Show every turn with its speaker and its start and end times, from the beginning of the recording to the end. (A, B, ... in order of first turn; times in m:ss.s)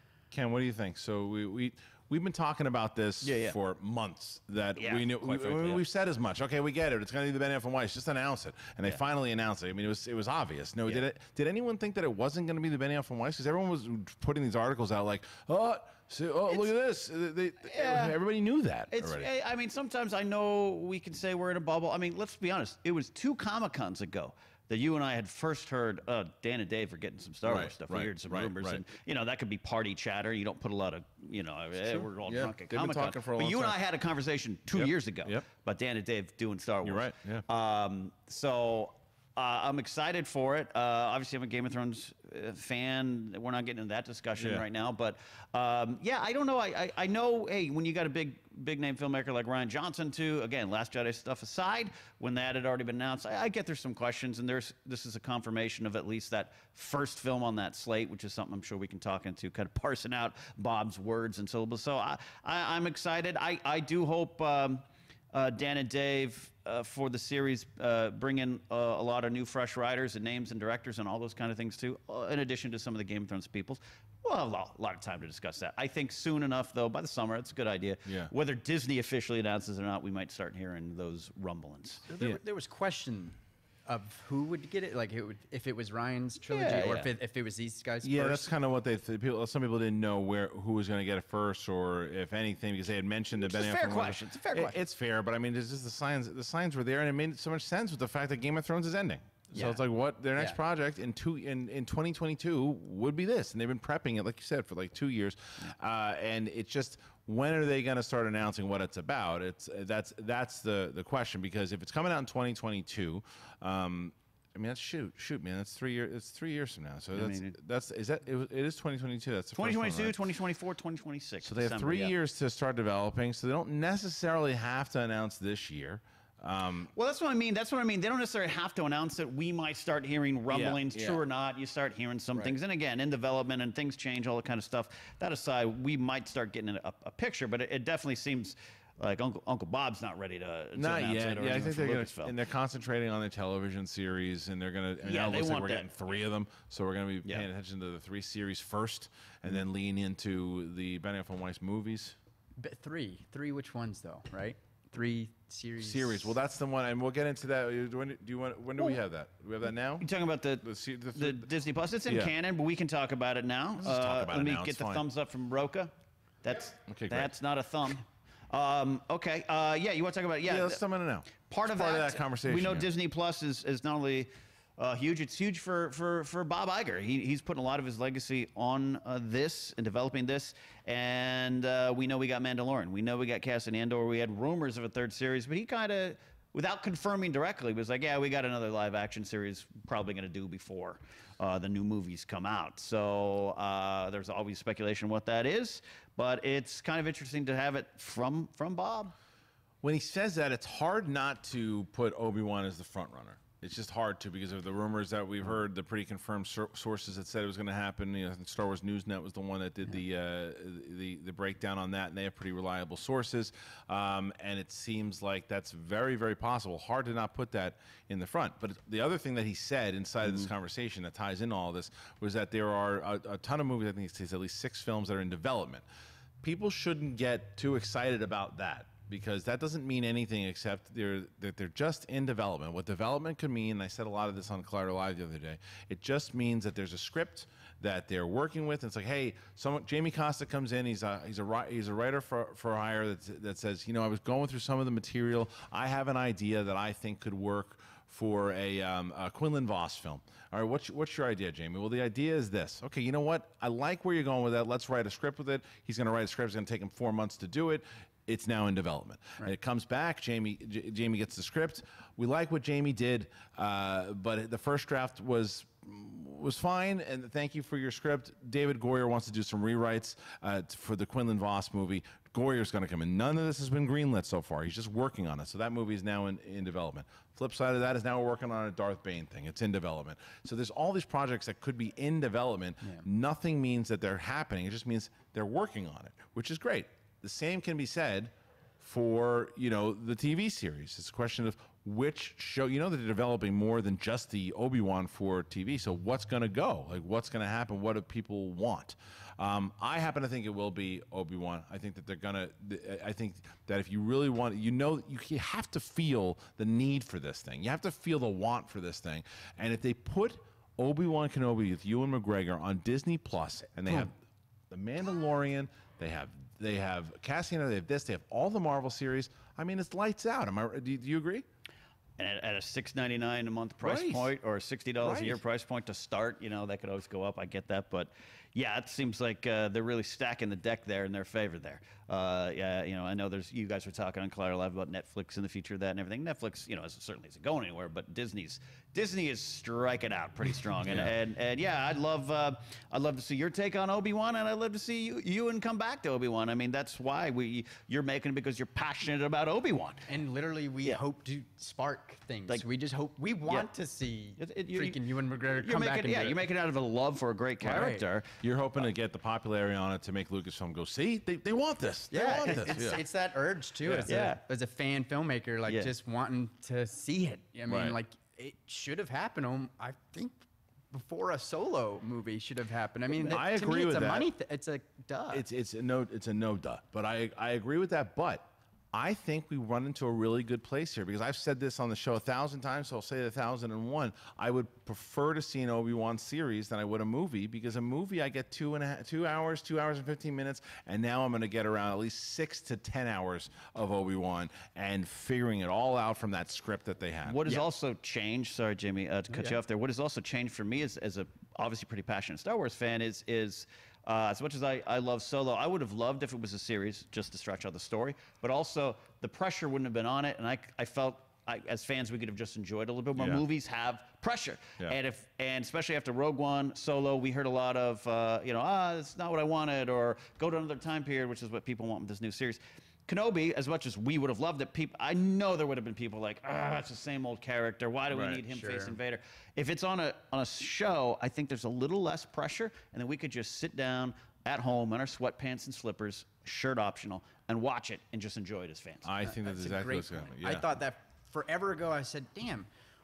0:00.3-0:19.3 A
0:03.2-0:03.6 B
0:04.8-0:05.8 B
0:17.7-0:18.2 B
0:18.9-1:22.1 B
0:27.4-0:28.8 A
0:31.8-0:33.8 A
0:34.7-0:35.4 A
0:36.8-0:37.4 A
0:44.4-0:44.6 A
1:18.1-1:18.3 A
1:22.1-1:28.5 C
1:26.5-1:27.1 B
1:28.0-2:00.2 A
1:33.4-1:34.8 B
1:39.5-1:39.8 C
1:57.1-1:57.6 B
1:59.6-2:02.1 B
2:01.4-2:06.9 A
2:07.0-2:22.3 B
2:10.5-2:11.2 A
2:20.8-2:32.2 A
2:25.0-2:25.9 B
2:32.6-2:36.3 C
2:35.8-2:40.1 A
2:40.0-2:45.9 B
2:40.6-2:41.5 A
2:42.1-2:42.3 A
2:43.8-2:45.0 A
2:46.4-2:50.8 B
2:46.8-2:47.3 A
2:50.4-2:52.9 A
2:51.5-3:19.1 B
3:19.8-3:45.8 A
3:46.4-5:14.2 A
5:14.7-5:21.5 A
5:22.2-5:50.1 B
5:23.8-5:24.3 A
5:25.0-5:25.4 A
5:40.8-5:41.2 A
5:50.1-5:56.4 C
5:54.4-5:58.4 B
5:57.6-5:58.1 C
5:58.4-6:03.0 A
6:02.1-6:10.4 C
6:02.4-6:02.8 B
6:03.8-6:04.1 A
6:04.1-6:04.4 B
6:07.7-6:08.0 A
6:10.9-6:15.4 C
6:13.3-6:14.3 A
6:15.3-6:37.6 A
6:37.3-7:19.1 B
6:39.3-6:39.6 C
6:53.2-6:53.4 A
7:08.1-7:08.4 A
7:08.5-7:09.0 C
7:19.0-7:20.7 A
7:19.2-7:22.7 C